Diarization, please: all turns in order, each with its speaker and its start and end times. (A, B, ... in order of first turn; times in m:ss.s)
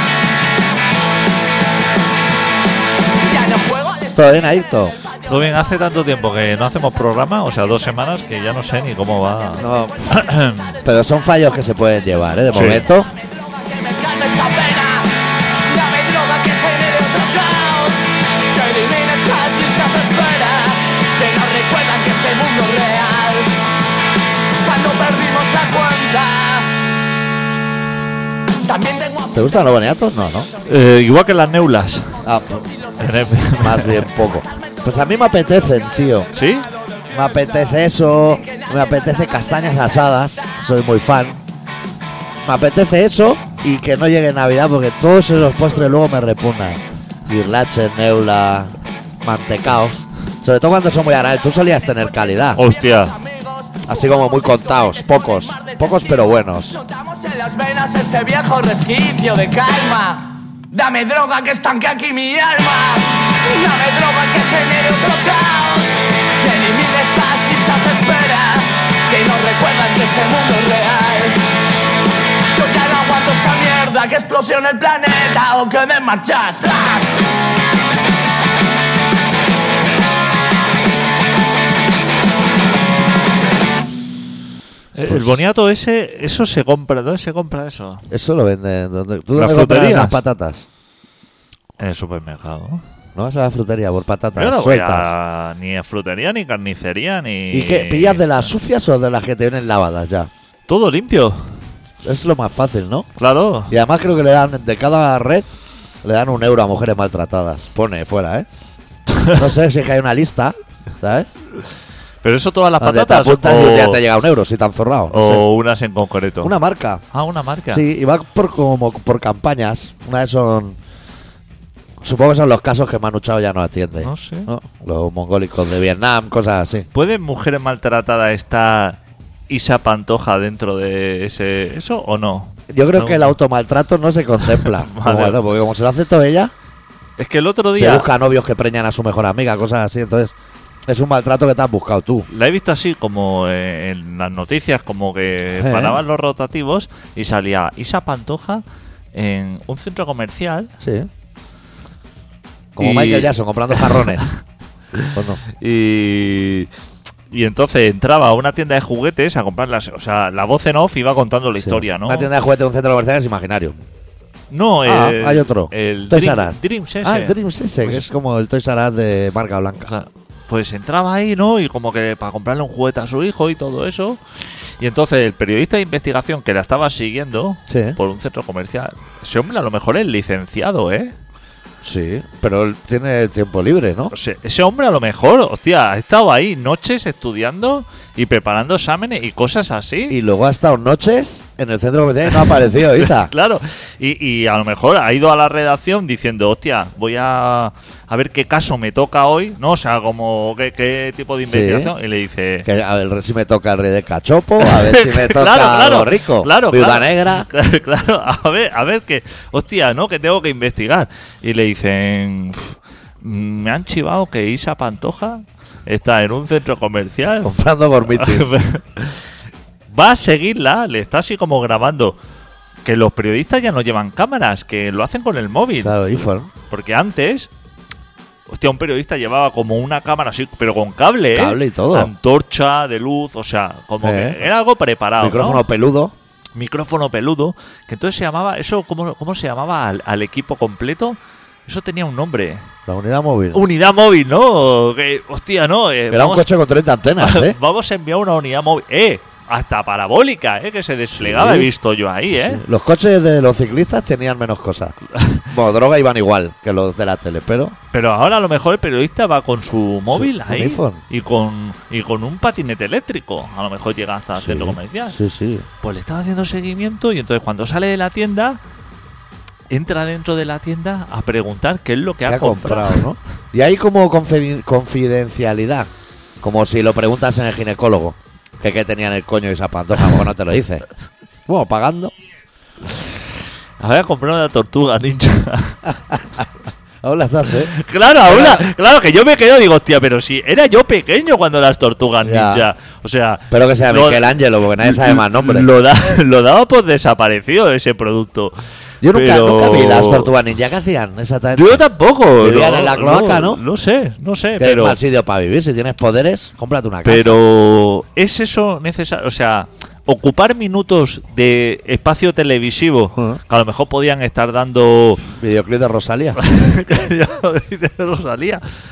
0:03.2-0:04.3 A
0:04.1-0:05.0 B
0:05.3-0:10.8 C
0:09.6-0:10.1 B
0:10.8-0:13.1 B
0:12.5-0:12.8 C
0:13.2-0:23.7 A
0:24.5-0:26.7 A
0:28.6-0:29.4 A
0:29.3-0:30.5 B
0:30.6-0:32.2 C
0:32.2-0:36.3 B
0:33.0-0:34.1 C
0:36.3-0:36.7 C
0:37.1-0:41.4 B
0:38.4-0:39.7 A
0:42.4-0:52.6 B
0:52.4-1:11.5 A
0:52.5-0:53.1 C
0:53.8-0:56.8 B
1:12.5-1:17.2 A
1:24.9-1:28.0 C
1:25.1-1:25.4 B
1:28.1-1:30.6 B
1:29.3-1:30.2 C
1:31.8-1:32.8 C
1:33.1-1:35.1 B
1:34.4-1:38.5 C
1:37.5-1:40.3 B
1:40.7-1:41.5 C
1:42.0-1:43.1 B
1:43.2-1:43.7 C
1:43.7-1:45.5 B
1:46.0-1:48.5 B
1:49.1-1:49.4 C
1:49.3-1:51.3 B
1:52.2-1:54.0 C
1:52.8-1:55.4 B
1:55.1-1:56.5 C
1:56.4-1:57.0 B
1:57.1-1:57.8 C
1:57.7-2:00.8 B
2:02.0-2:06.9 B
2:04.0-2:04.5 C
2:06.9-2:13.3 C
2:12.7-2:16.5 B
2:14.5-2:15.4 C
2:17.2-2:18.1 C
2:17.8-2:20.3 B
2:20.9-2:22.3 B
2:22.3-2:30.7 C
2:25.6-2:26.0 B
2:30.8-2:31.1 B
2:32.7-2:34.3 B
2:32.8-2:34.0 C
2:34.9-2:36.7 C
2:35.1-2:35.4 B
2:37.3-2:42.3 C
2:41.6-2:43.8 B
2:44.5-2:48.1 C
2:44.8-2:49.9 B
2:49.8-3:01.1 C
2:57.7-2:58.0 B
3:01.8-3:04.1 B
3:04.1-3:10.2 C
3:10.1-3:13.3 B
3:12.4-3:22.7 C
3:21.4-3:21.9 B
3:22.6-3:27.5 B
3:24.6-3:39.2 C
3:37.4-3:38.6 B
3:39.9-3:42.2 C
3:42.8-3:46.0 C
3:45.8-3:46.5 B
3:46.7-3:47.5 C
3:48.5-3:55.6 C
3:51.3-3:52.1 B
3:54.0-3:54.4 B
3:55.2-3:56.1 B
3:56.5-4:02.7 C
4:02.9-4:03.6 B
4:03.5-4:06.5 C
4:06.1-4:07.6 B
4:07.2-4:12.6 C
4:11.1-4:11.7 B
4:12.4-4:14.9 B
4:15.1-4:15.4 C
4:15.5-4:17.8 B
4:17.9-4:25.2 C
4:20.1-4:21.0 B
4:24.4-4:25.6 B
4:25.8-4:28.6 C
4:29.7-4:33.0 C
4:32.2-4:35.9 B
4:36.4-4:40.8 B
4:41.5-4:42.1 B
4:43.8-4:45.9 C
4:46.1-4:46.4 B
4:47.0-4:47.7 B
4:47.7-4:58.5 C
4:48.2-4:48.7 B
4:52.2-4:52.6 B
4:53.5-4:55.7 B
4:59.0-5:01.8 B
4:59.0-5:00.3 C
5:01.5-5:05.0 C
5:02.4-5:03.6 B
5:04.6-5:07.4 B
5:07.0-5:15.2 C
5:15.4-5:16.4 B
5:16.4-5:18.6 C